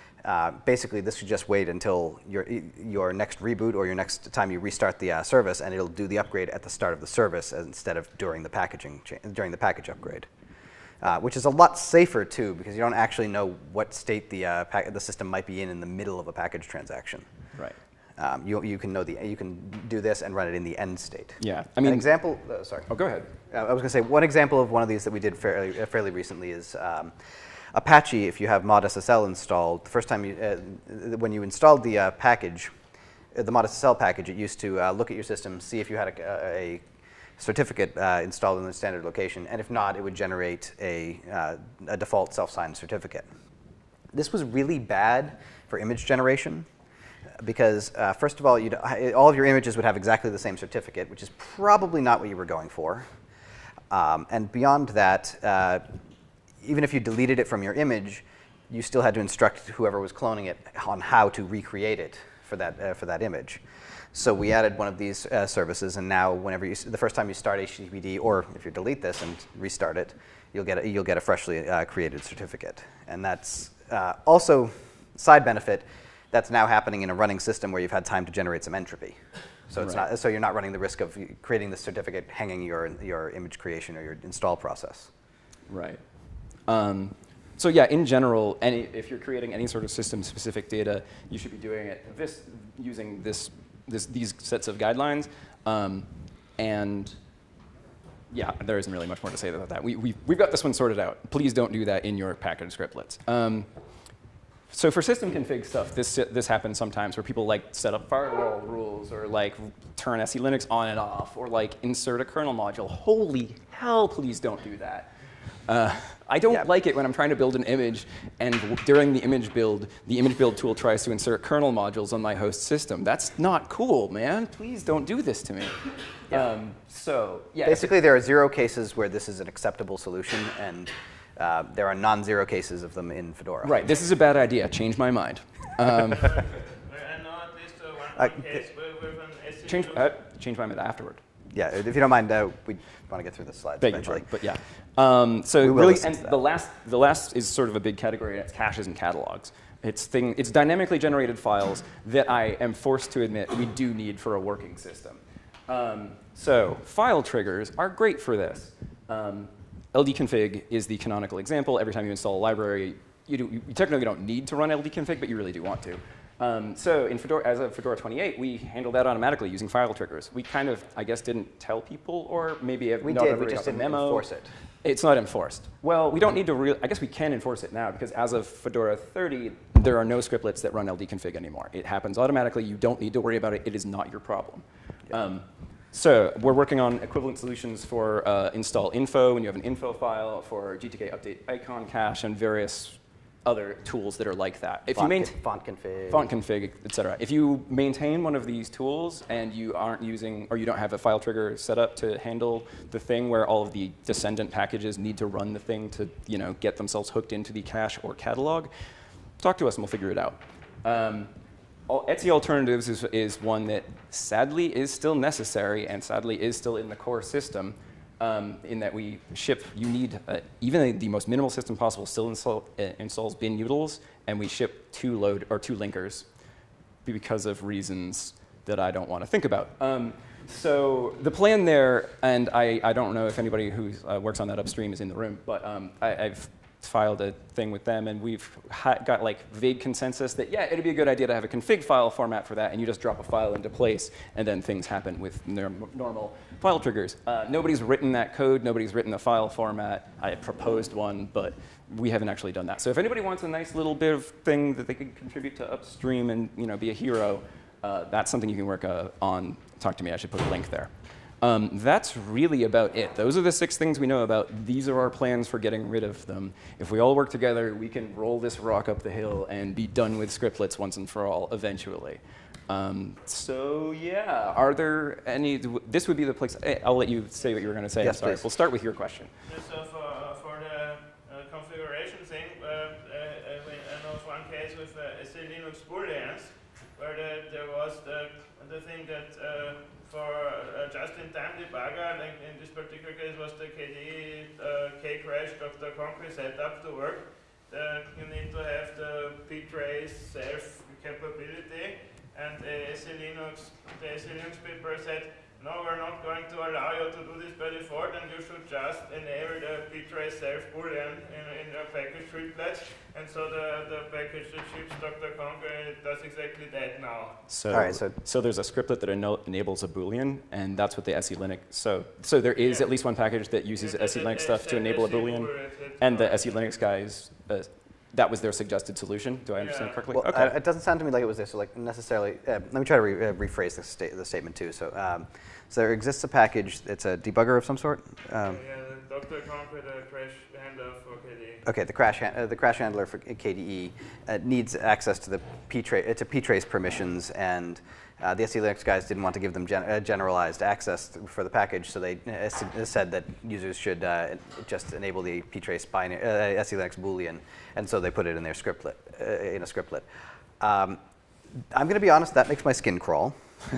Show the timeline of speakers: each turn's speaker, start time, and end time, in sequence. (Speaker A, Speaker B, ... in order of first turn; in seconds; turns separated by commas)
Speaker A: 0.2-10.3, Speaker A: 11.0-17.3, Speaker A: 18.2-27.2, Speaker B: 21.4-22.1, Speaker B: 22.9-23.3, Speaker A: 27.7-32.7, Speaker A: 33.3-36.8, Speaker A: 37.4-43.3, Speaker A: 44.1-46.7, Speaker A: 47.4-53.1, Speaker A: 53.9-55.9, Speaker A: 56.6-63.6, Speaker A: 64.1-85.1, Speaker B: 79.8-80.0, Speaker B: 85.7-97.2, Speaker B: 98.3-103.7, Speaker B: 104.7-115.1, Speaker B: 115.7-127.9, Speaker A: 127.6-133.8, Speaker B: 133.6-136.3, Speaker C: 136.2-140.1, Speaker A: 138.2-138.6, Speaker B: 139.6-141.2, Speaker A: 141.5-144.3, Speaker B: 143.8-174.3, Speaker A: 145.6-146.3, Speaker A: 173.0-174.5, Speaker B: 174.8-195.3, Speaker A: 194.9-196.3, Speaker B: 196.1-208.7, Speaker B: 209.4-211.3, Speaker B: 211.9-226.3, Speaker B: 227.1-279.3, Speaker A: 278.0-278.4, Speaker C: 279.4-317.4, Speaker B: 317.5-330.5, Speaker A: 317.7-318.1, Speaker C: 322.6-322.9, Speaker C: 323.8-326.7, Speaker C: 329.6-330.0, Speaker A: 330.1-338.6, Speaker C: 338.5-341.6, Speaker A: 341.6-360.1, Speaker A: 360.6-361.0, Speaker A: 361.7-363.4